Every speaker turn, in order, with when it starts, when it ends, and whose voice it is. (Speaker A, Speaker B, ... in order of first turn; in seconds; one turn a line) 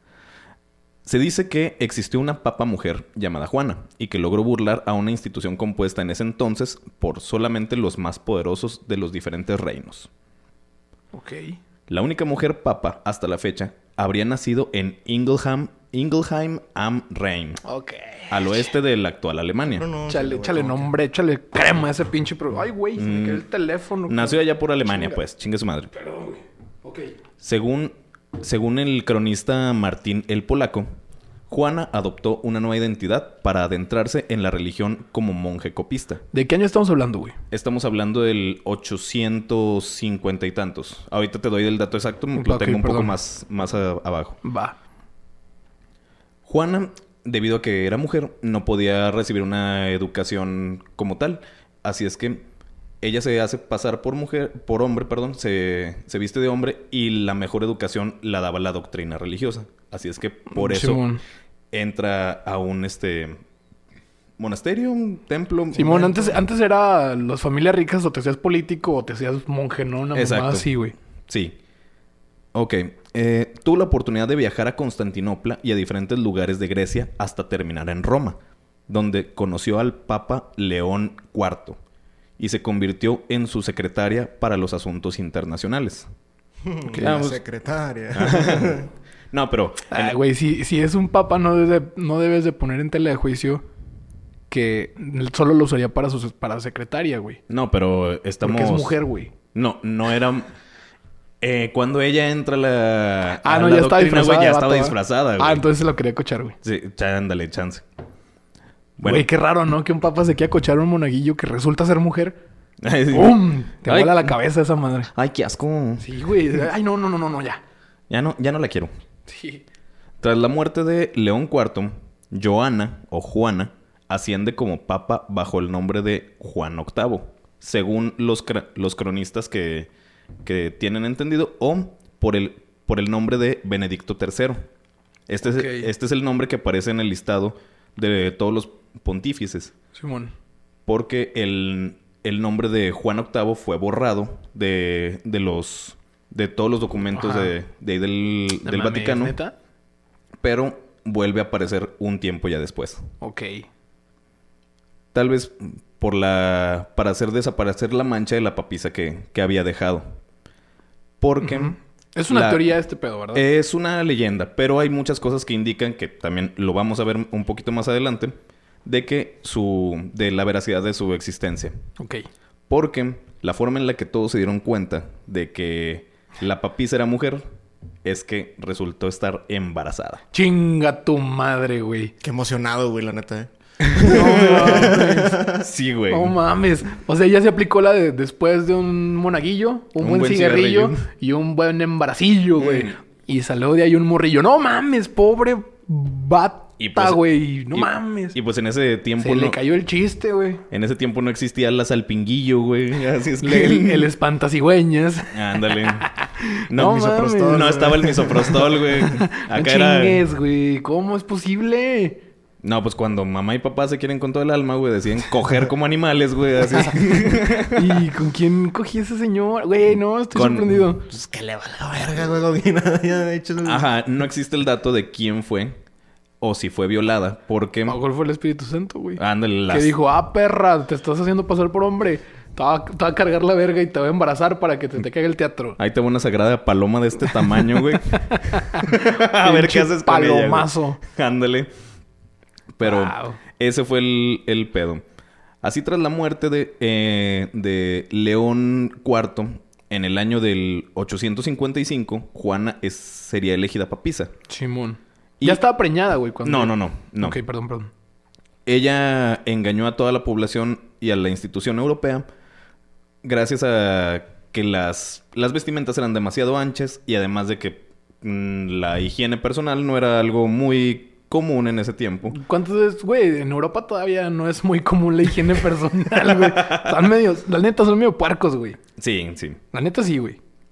Speaker A: 1.0-10.1
Speaker B: 11.1-11.6
Speaker A: 11.9-17.6
Speaker B: 17.6-18.7
Speaker A: 18.3-19.9
Speaker C: 19.7-20.9
Speaker B: 20.1-25.2
Speaker A: 23.0-23.4
Speaker A: 24.1-25.9
Speaker B: 25.9-27.1
Speaker A: 27.4-30.9
Speaker A: 31.5-36.2
Speaker B: 36.3-37.3
Speaker A: 37.5-44.4
Speaker B: 42.4-43.1
Speaker B: 44.4-44.8
Speaker A: 46.5-52.4
Speaker A: 53.0-61.0
Speaker B: 60.5-61.2
Speaker A: 61.7-63.4
Speaker A: 64.4-66.4
Speaker B: 65.7-70.9
Speaker A: 70.1-70.7
Speaker A: 71.3-71.5
Speaker A: 72.5-78.4
Speaker A: 78.9-81.8
Speaker A: 82.4-86.1
Speaker C: 86.6-88.9
Speaker A: 87.0-87.4
Speaker A: 88.1-90.2
Speaker B: 89.9-93.6
Speaker B: 94.5-97.4
Speaker A: 97.5-99.0
Speaker B: 98.4-99.3
Speaker A: 99.5-100.5
Speaker A: 101.4-105.6
Speaker B: 103.4-106.6
Speaker A: 106.6-107.8
Speaker A: 109.0-109.3
Speaker B: 109.0-112.4
Speaker A: 112.8-114.3
Speaker B: 113.1-115.1
Speaker A: 115.1-116.0
Speaker B: 116.0-117.6
Speaker A: 118.1-118.9
Speaker B: 119.3-119.6
Speaker A: 120.2-129.9
Speaker A: 130.4-134.6
Speaker A: 135.3-139.7
Speaker B: 135.4-135.9
Speaker B: 139.9-140.3
Speaker A: 140.9-149.3
Speaker B: 147.1-147.5
Speaker B: 148.6-149.5
Speaker A: 150.4-153.1
Speaker B: 153.2-153.7
Speaker A: 155.1-160.0
Speaker A: 161.2-161.7
Speaker B: 161.4-163.4
Speaker A: 162.3-162.7
Speaker A: 163.3-171.7
Speaker B: 172.0-172.3
Speaker A: 172.7-177.4
Speaker A: 178.0-180.2
Speaker B: 180.3-182.1
Speaker C: 182.2-185.6
Speaker A: 183.8-185.0
Speaker B: 184.0-185.4
Speaker A: 185.6-186.4
Speaker B: 186.1-198.4
Speaker A: 190.0-191.0
Speaker A: 192.6-192.9
Speaker A: 196.8-199.6
Speaker B: 199.2-200.6
Speaker A: 200.7-204.1
Speaker B: 203.4-207.8
Speaker A: 205.3-206.1
Speaker A: 206.7-210.2
Speaker C: 206.8-208.8
Speaker B: 209.0-212.2
Speaker A: 212.6-218.0
Speaker B: 217.7-221.1
Speaker A: 220.3-220.9
Speaker C: 221.1-223.9
Speaker A: 223.6-225.8
Speaker A: 226.4-228.0
Speaker B: 227.9-235.8
Speaker A: 229.2-229.9
Speaker A: 235.8-241.7
Speaker B: 237.4-241.0
Speaker A: 242.8-245.0
Speaker B: 242.8-243.4
Speaker A: 245.6-254.3
Speaker B: 254.5-257.9
Speaker A: 256.4-257.4
Speaker A: 258.6-262.2
Speaker A: 263.2-272.4
Speaker B: 272.3-278.8
Speaker A: 276.2-277.0
Speaker A: 279.0-279.6
Speaker B: 279.7-280.4